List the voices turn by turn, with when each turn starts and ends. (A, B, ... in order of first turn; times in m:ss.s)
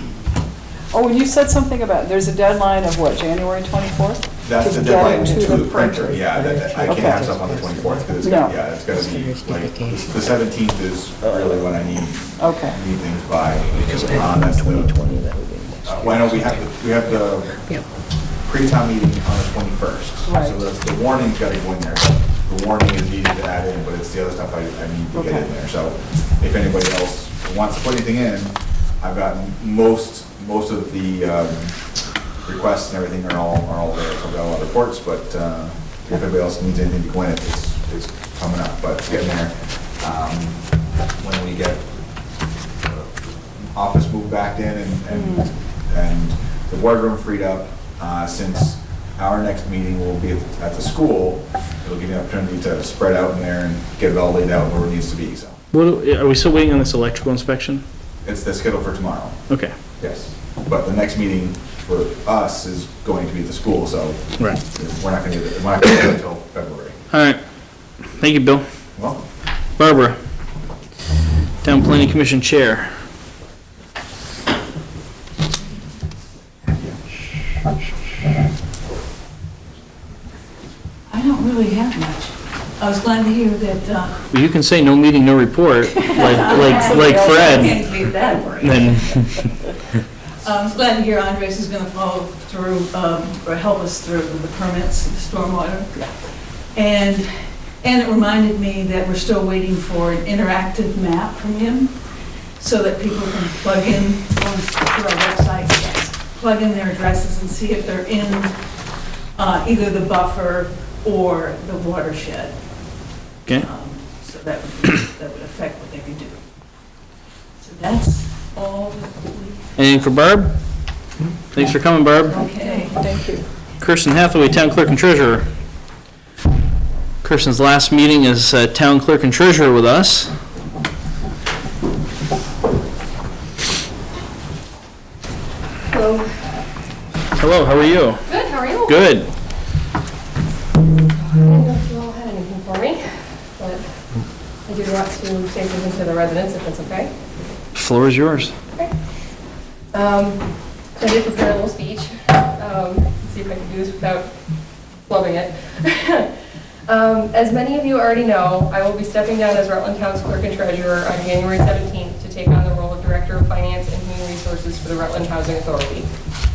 0:00.9-0:06.0 A
0:04.4-0:15.1 B
0:04.6-0:08.2 C
0:06.8-0:07.2 A
0:08.2-0:08.6 A
0:08.8-0:10.2 C
0:11.2-0:11.9 C
0:12.4-0:12.8 A
0:13.8-0:16.6 C
0:15.8-0:17.8 B
0:18.4-0:31.8 B
0:20.2-0:20.6 A
0:25.2-0:25.4 A
0:32.4-0:40.6 B
0:41.2-0:41.9 B
0:42.8-0:55.6 B
0:55.7-0:57.8 D
0:58.2-0:59.4 B
0:59.5-0:59.7 D
1:00.0-1:07.0 B
1:07.1-1:07.4 D
1:08.2-1:08.6 D
1:09.0-1:09.2 B
1:09.8-1:10.2 D
1:11.6-1:12.9 D
1:21.1-1:24.2 E
1:24.3-1:27.8 D
1:26.0-1:29.6 E
1:26.7-1:27.2 A
1:28.6-1:29.5 D
1:30.4-1:36.1 E
1:36.7-1:48.5 E
1:49.4-1:52.6 E
1:53.5-1:56.4 E
1:57.6-1:59.7 E
1:59.8-2:00.6 D
2:01.5-2:02.4 D
2:02.2-2:03.0 E
2:02.5-2:03.4 A
2:03.8-2:05.5 D
2:07.2-2:10.3 D
2:15.9-2:16.2 F
2:17.4-2:18.2 D
2:18.2-2:19.1 F
2:18.8-2:19.3 D
2:21.1-2:23.0 F
2:24.6-2:27.1 F
2:27.7-2:28.5 D
2:29.9-2:34.3 F
2:35.1-2:36.3 F
2:36.9-2:46.1 F